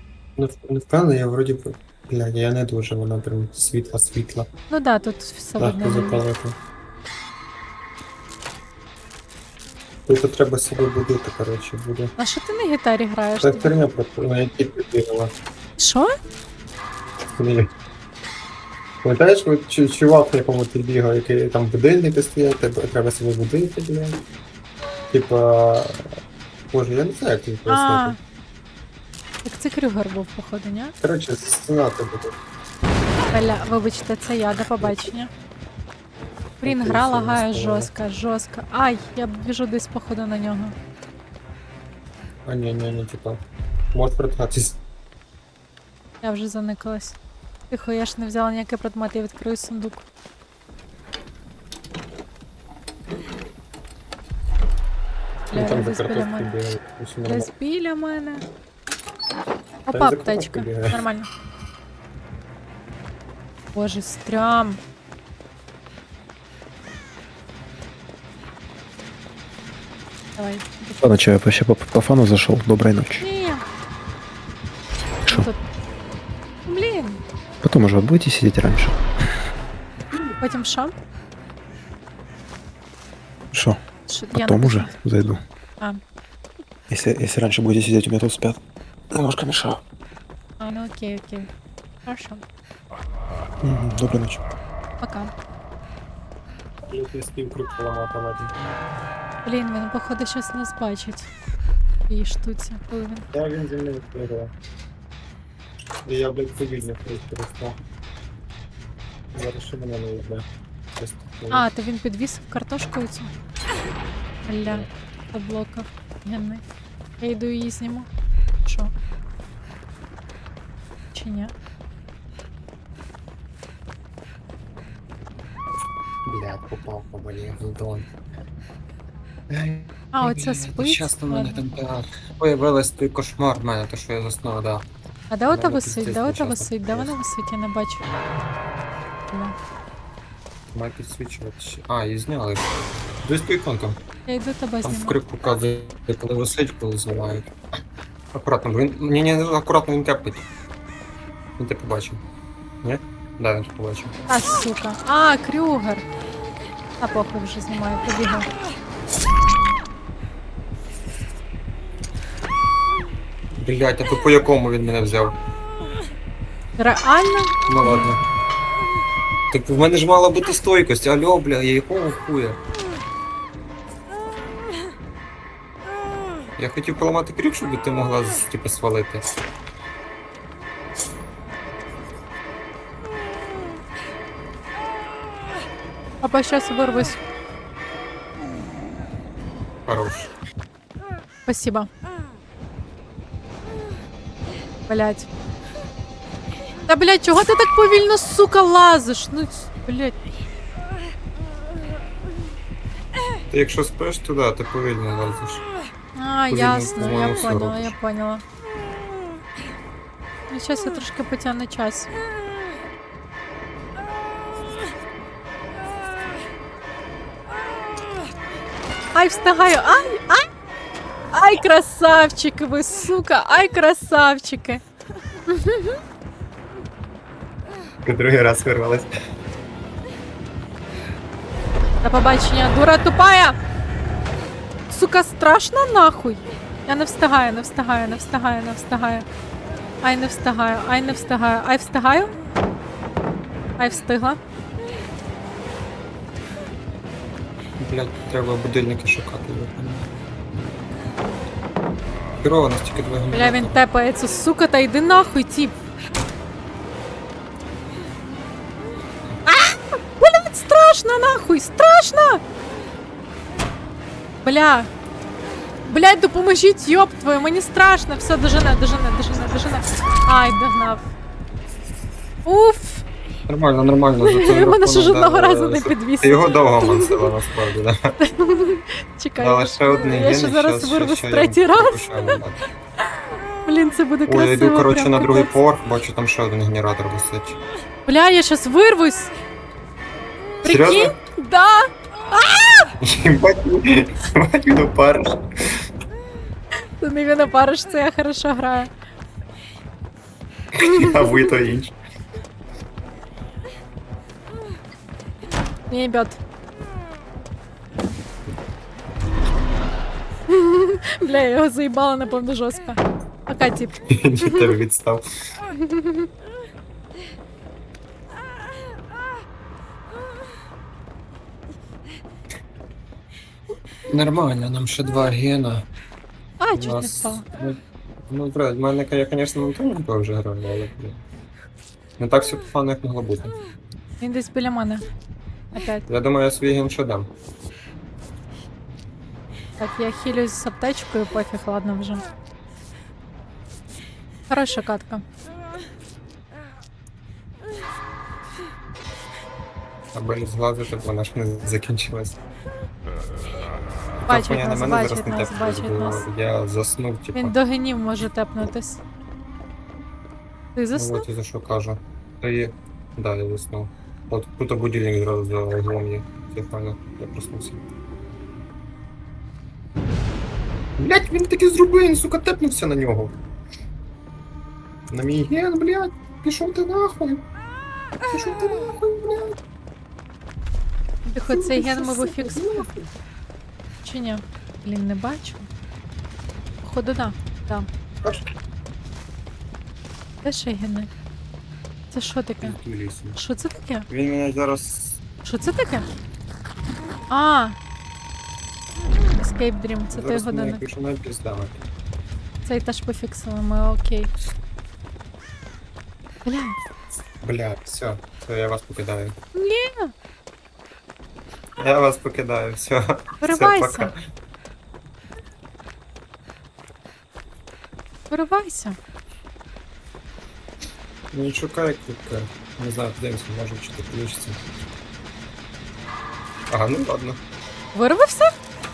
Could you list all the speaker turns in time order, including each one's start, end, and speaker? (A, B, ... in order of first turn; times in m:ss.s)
0:00.4-0:04.5 A
0:04.7-0:06.2 B
0:05.6-0:06.5 A
0:10.1-0:12.1 A
0:12.2-0:13.7 B
0:13.4-0:15.3 A
0:15.8-0:16.1 B
0:17.4-0:17.7 A
0:19.0-0:24.2 A
0:25.1-0:26.1 A
0:26.7-0:28.2 A
0:27.7-0:28.2 B
0:29.4-0:30.9 B
0:31.0-0:32.3 A
0:33.3-0:35.3 B
0:36.6-0:40.7 B
0:36.6-0:37.9 A
0:42.4-0:43.4 A
0:43.9-0:44.8 A
0:46.2-0:47.2 B
0:47.7-0:50.0 B
0:55.5-0:56.5 B
0:55.5-0:57.5 A
0:57.2-0:58.4 B
0:59.9-1:01.3 B
0:59.9-1:01.0 A
1:03.7-1:04.8 B
1:10.4-1:11.0 B
1:11.0-1:13.2 C
1:13.2-1:13.6 B
1:15.2-1:15.6 B
1:16.6-1:17.2 B
1:17.6-1:19.0 C
1:20.4-1:20.9 B
1:23.5-1:23.8 C
1:24.1-1:24.9 B
1:24.3-1:25.4 C
1:26.9-1:28.6 C
1:29.1-1:29.8 C
1:30.6-1:31.5 B
1:32.0-1:32.4 B
1:33.6-1:34.4 C
1:35.0-1:35.3 B
1:36.9-1:38.5 A
1:39.4-1:41.3 B
1:42.1-1:43.2 B
1:43.3-1:44.5 A
1:46.0-1:47.8 A
1:49.3-1:50.4 A
1:51.0-1:51.7 A
1:51.5-1:53.3 B
1:54.5-1:56.6 B
1:57.2-1:58.1 B
1:58.6-1:58.9 B
2:01.1-2:01.5 B
2:06.2-2:08.1 A
2:09.5-2:14.8 A
2:10.1-2:11.6 B
2:15.3-2:18.0 B
2:15.5-2:17.1 A
2:19.3-2:19.5 B
2:20.7-2:22.7 A
2:23.2-2:24.0 A
2:24.3-2:25.2 B
2:24.8-2:27.5 A
2:28.3-2:30.4 A
2:31.6-2:32.2 A
2:32.8-2:34.1 A
2:34.3-2:36.0 B
2:37.0-2:38.5 B
2:43.6-2:45.3 A
2:46.8-2:48.1 B
2:47.7-2:48.2 A
2:49.5-2:52.6 A
2:56.6-2:59.2 A
3:06.2-3:07.2 B
3:09.9-3:10.3 A
3:11.4-3:11.9 B
3:14.9-3:15.3 B
3:16.9-3:20.1 B
3:23.5-3:25.6 A
3:26.1-3:28.4 B
3:26.5-3:28.0 A
3:30.5-3:32.1 B
3:39.1-3:40.5 B
3:41.3-3:44.8 B
3:45.5-3:46.0 B
3:48.0-3:49.1 A
3:52.0-3:53.6 B
3:54.9-3:59.2 B
4:00.0-4:02.3 B
4:03.8-4:04.4 B
4:07.8-4:10.1 A
4:12.4-4:13.8 A
4:13.3-4:15.7 B
4:19.4-4:22.4 B
4:24.4-4:24.9 B
4:25.8-4:31.1 B
4:32.4-4:33.0 B
4:33.5-4:38.1 A
4:34.2-4:37.3 B
4:38.2-4:42.4 B
4:39.4-4:42.6 A
4:43.6-4:45.6 B
4:44.3-4:47.6 A
4:48.0-4:49.3 B
4:50.6-4:52.9 B
4:50.6-4:51.2 A
4:53.0-4:55.4 A
4:57.0-4:58.9 B
5:00.7-5:02.0 A
5:00.8-5:01.4 B
5:05.9-5:06.4 B
5:10.5-5:14.7 B
5:14.1-5:15.2 A
5:15.7-5:16.3 B
5:24.1-5:25.8 A
5:26.6-5:27.4 B
5:26.7-5:27.8 A
5:28.3-5:31.2 A
5:32.2-5:33.6 A
5:34.2-5:35.0 B
5:35.7-5:36.0 B
5:36.1-5:37.3 A
5:39.8-5:42.2 B
5:44.5-5:45.2 B
5:50.1-5:52.4 A
5:54.2-5:57.5 A
5:54.3-5:56.2 B
5:57.3-5:59.0 B
6:00.7-6:01.2 B
6:00.9-6:07.8 A
6:11.0-6:13.3 A
6:15.1-6:17.4 A
6:18.3-6:19.6 A
6:21.3-6:23.1 A
6:21.3-6:22.9 B
6:24.0-6:25.7 B
6:26.8-6:27.9 B
6:30.4-6:31.1 B
6:32.1-6:32.8 B
6:32.6-6:33.4 A
6:33.3-6:34.0 B
6:34.1-6:35.2 A
6:35.4-6:36.1 B
6:37.3-6:37.8 B
6:39.4-6:40.8 B
6:40.1-6:41.8 A
6:42.6-6:44.3 B
6:46.4-6:46.8 B
6:47.4-6:49.3 A
6:49.5-6:50.1 B
6:51.8-6:54.2 A
6:53.4-6:54.1 B
6:58.3-6:59.0 B
7:01.3-7:04.6 A
7:06.7-7:07.4 A
7:07.9-7:08.5 B